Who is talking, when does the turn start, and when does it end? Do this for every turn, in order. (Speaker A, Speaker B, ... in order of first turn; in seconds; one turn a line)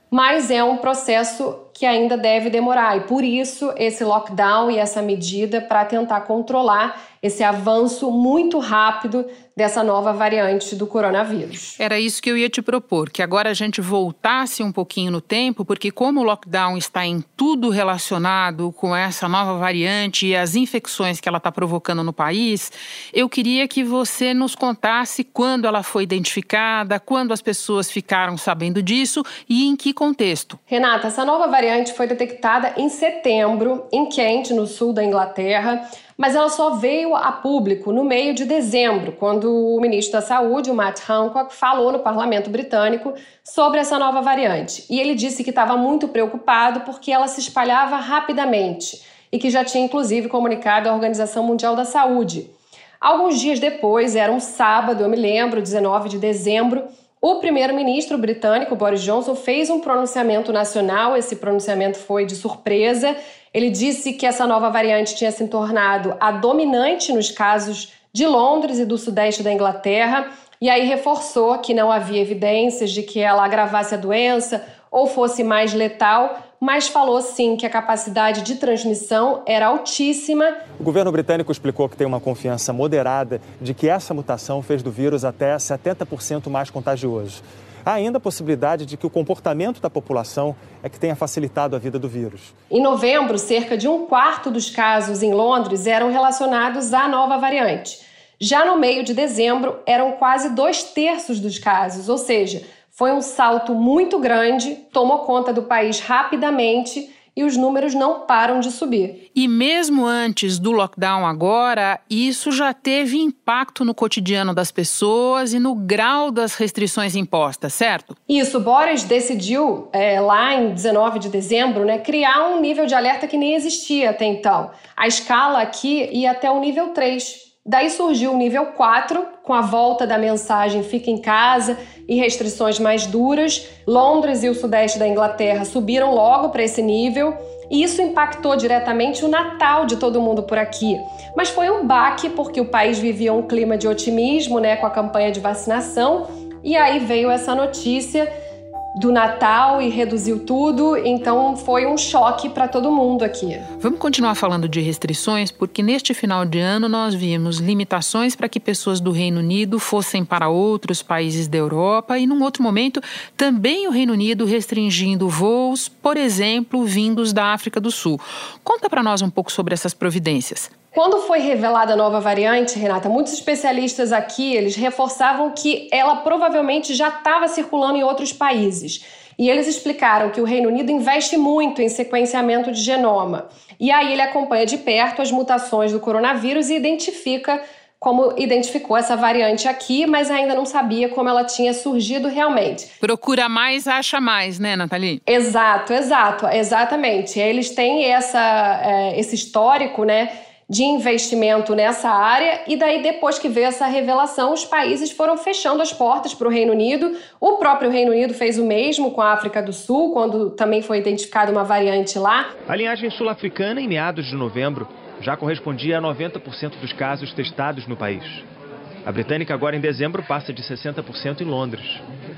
Speaker A: 0.1-11.8
Speaker B: 11.8-30.6
Speaker A: 30.7-80.6
Speaker C: 80.8-92.5
Speaker A: 92.7-109.2
Speaker B: 109.3-118.2
Speaker A: 118.3-148.3
Speaker A: 148.9-153.7
Speaker B: 153.8-170.7
Speaker A: 170.9-192.9
Speaker B: 193.0-195.2
Speaker A: 195.2-212.5
Speaker D: 212.7-218.4
Speaker D: 219.0-222.0